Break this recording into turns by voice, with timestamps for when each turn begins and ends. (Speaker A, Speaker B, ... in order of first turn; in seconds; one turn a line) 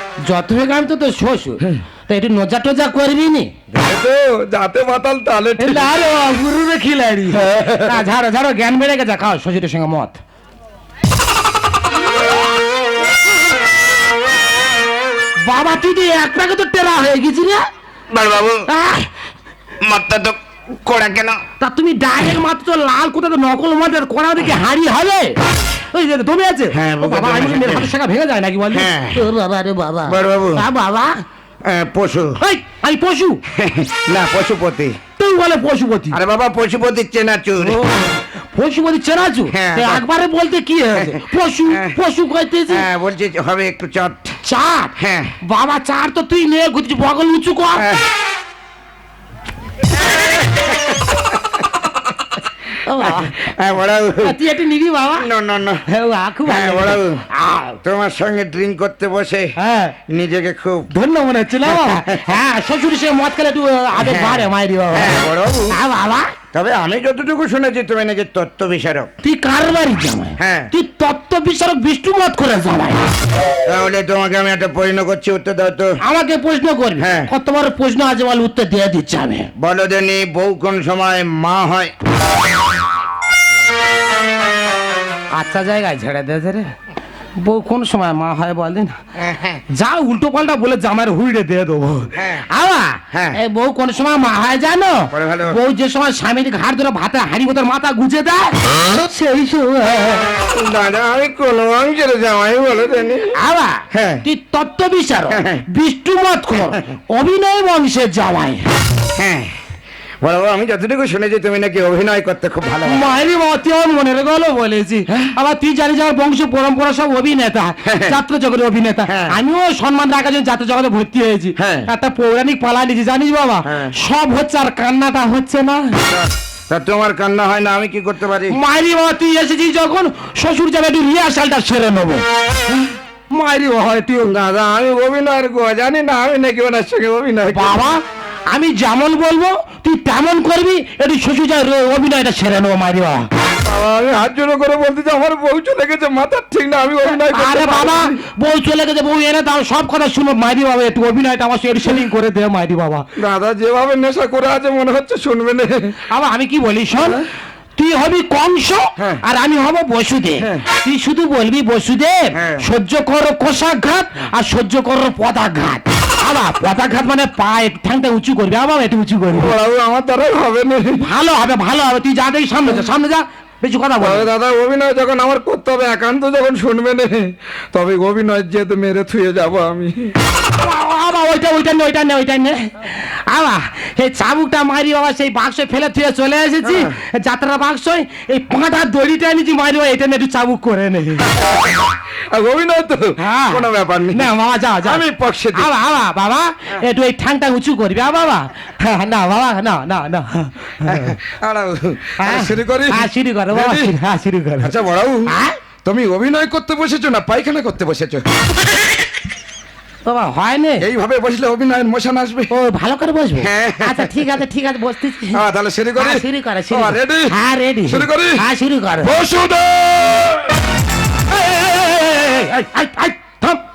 Speaker A: 0.2-3.5
Speaker B: 3.7-5.9
Speaker A: 5.6-10.2
Speaker B: 7.3-8.0
Speaker A: 15.4-17.6
Speaker C: 18.1-18.7
Speaker A: 18.7-19.1
Speaker C: 19.8-21.4
Speaker A: 21.6-25.4
Speaker A: 25.9-31.2
Speaker C: 26.7-27.9
Speaker C: 28.7-29.2
Speaker C: 30.1-30.6
Speaker C: 31.6-32.4
Speaker A: 32.4-33.4
Speaker C: 33.5-35.0
Speaker A: 35.2-36.2
Speaker C: 36.1-37.8
Speaker A: 37.6-42.9
Speaker C: 39.5-40.0
Speaker C: 42.7-44.4
Speaker A: 44.4-44.9
Speaker C: 45.0-45.3
Speaker A: 45.4-47.8
Speaker C: 47.8-48.0
Speaker A: 52.9-53.5
Speaker C: 53.1-54.4
Speaker A: 54.2-55.3
Speaker C: 55.2-55.8
Speaker A: 55.9-57.8
Speaker C: 56.5-57.2
Speaker C: 57.8-59.5
Speaker A: 59.6-59.9
Speaker C: 60.1-60.9
Speaker A: 60.9-65.2
Speaker C: 61.6-62.3
Speaker C: 64.0-65.8
Speaker A: 65.7-66.3
Speaker C: 66.5-69.1
Speaker A: 69.2-73.0
Speaker C: 70.4-70.7
Speaker C: 73.7-76.0
Speaker A: 76.0-79.5
Speaker C: 77.0-77.3
Speaker C: 79.6-81.9
Speaker A: 85.3-86.7
Speaker A: 87.4-89.0
Speaker C: 89.2-89.6
Speaker A: 89.7-100.2
Speaker C: 92.2-92.4
Speaker C: 93.1-93.4
Speaker C: 95.1-95.6
Speaker C: 100.6-103.3
Speaker A: 103.3-108.6
Speaker C: 103.9-104.2
Speaker C: 105.3-105.6
Speaker C: 109.2-109.5
Speaker C: 110.2-113.1
Speaker A: 112.8-125.8
Speaker C: 117.8-118.2
Speaker C: 119.1-119.3
Speaker C: 121.6-121.9
Speaker C: 123.7-123.9
Speaker C: 126.1-128.6
Speaker A: 128.5-134.3
Speaker C: 134.2-137.7
Speaker A: 137.5-143.3
Speaker B: 143.6-148.1
Speaker A: 147.1-153.0
Speaker B: 153.2-155.9
Speaker A: 156.1-157.2
Speaker A: 157.8-169.5
Speaker C: 162.3-162.7
Speaker B: 169.3-171.0
Speaker A: 171.0-174.3
Speaker B: 174.0-180.1
Speaker A: 180.6-191.3
Speaker C: 186.7-186.9
Speaker B: 191.5-194.2
Speaker A: 193.2-195.0
Speaker B: 194.8-195.7
Speaker A: 195.5-201.1
Speaker B: 200.9-203.9
Speaker A: 202.2-204.8
Speaker C: 204.8-205.1
Speaker A: 205.3-205.6
Speaker B: 205.8-208.2
Speaker A: 210.1-210.8
Speaker B: 210.8-212.5
Speaker A: 212.5-215.4
Speaker C: 213.4-214.1
Speaker B: 215.4-217.3
Speaker A: 216.0-219.1
Speaker B: 217.9-218.4
Speaker B: 219.0-220.5
Speaker A: 221.3-223.6